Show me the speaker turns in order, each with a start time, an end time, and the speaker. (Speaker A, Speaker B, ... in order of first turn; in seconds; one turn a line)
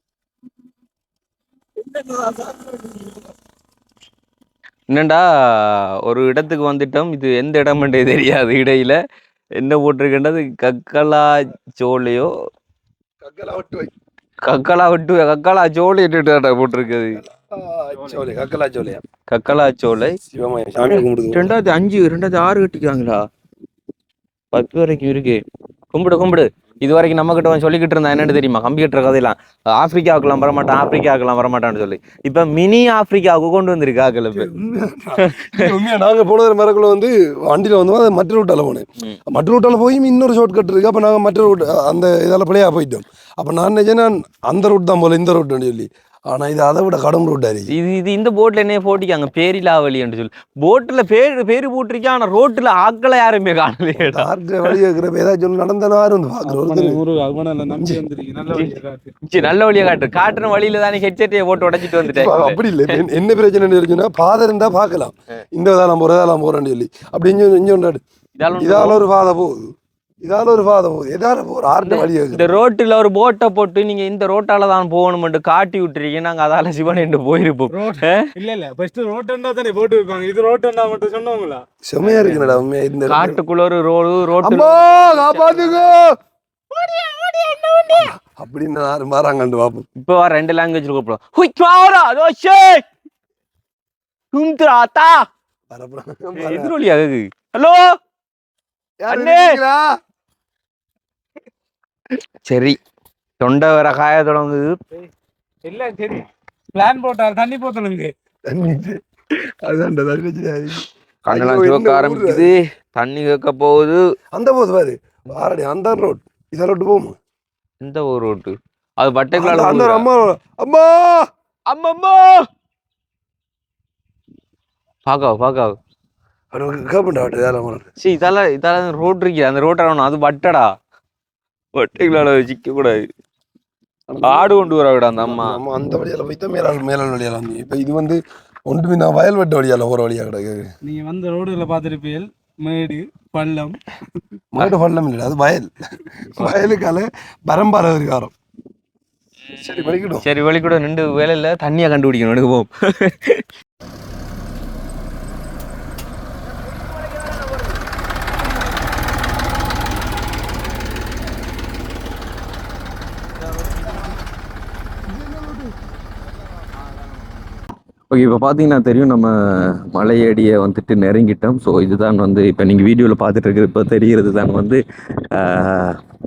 Speaker A: 1.8-3.2
Speaker A: 4.9-9.0
Speaker A: 9.6-12.3
Speaker B: 13.2-13.9
Speaker A: 14.4-17.2
Speaker B: 17.2-19.0
Speaker A: 19.3-20.2
Speaker B: 20.3-21.5
Speaker A: 20.9-23.3
Speaker A: 24.5-25.4
Speaker A: 25.9-34.5
Speaker B: 34.3-47.7
Speaker A: 35.2-35.6
Speaker A: 47.7-54.7
Speaker B: 54.0-57.0
Speaker C: 56.5-59.1
Speaker A: 59.3-63.0
Speaker B: 62.0-68.0
Speaker A: 68.4-69.0
Speaker B: 68.6-72.6
Speaker A: 71.8-78.3
Speaker C: 77.7-81.6
Speaker B: 81.8-83.4
Speaker A: 82.2-82.5
Speaker A: 83.1-85.9
Speaker B: 84.4-86.1
Speaker A: 86.8-88.1
Speaker B: 87.9-89.9
Speaker A: 90.0-92.8
Speaker A: 94.3-95.2
Speaker B: 95.7-96.7
Speaker A: 96.4-97.9
Speaker B: 99.0-99.9
Speaker A: 99.1-99.6
Speaker A: 102.5-102.8
Speaker A: 103.4-104.8
Speaker C: 105.7-108.1
Speaker B: 108.5-112.5
Speaker A: 111.3-114.0
Speaker B: 114.3-117.2
Speaker A: 117.8-120.1
Speaker B: 119.4-121.3
Speaker A: 121.7-122.5
Speaker A: 125.1-125.8
Speaker B: 126.5-127.9
Speaker A: 128.0-130.7
Speaker A: 131.8-133.0
Speaker B: 134.1-134.7
Speaker A: 134.2-135.6
Speaker B: 135.2-140.7
Speaker C: 140.8-143.8
Speaker B: 144.5-148.3
Speaker B: 149.6-150.2
Speaker A: 149.8-153.4
Speaker B: 165.1-165.7
Speaker A: 168.1-169.3
Speaker A: 169.9-174.8
Speaker A: 175.4-175.9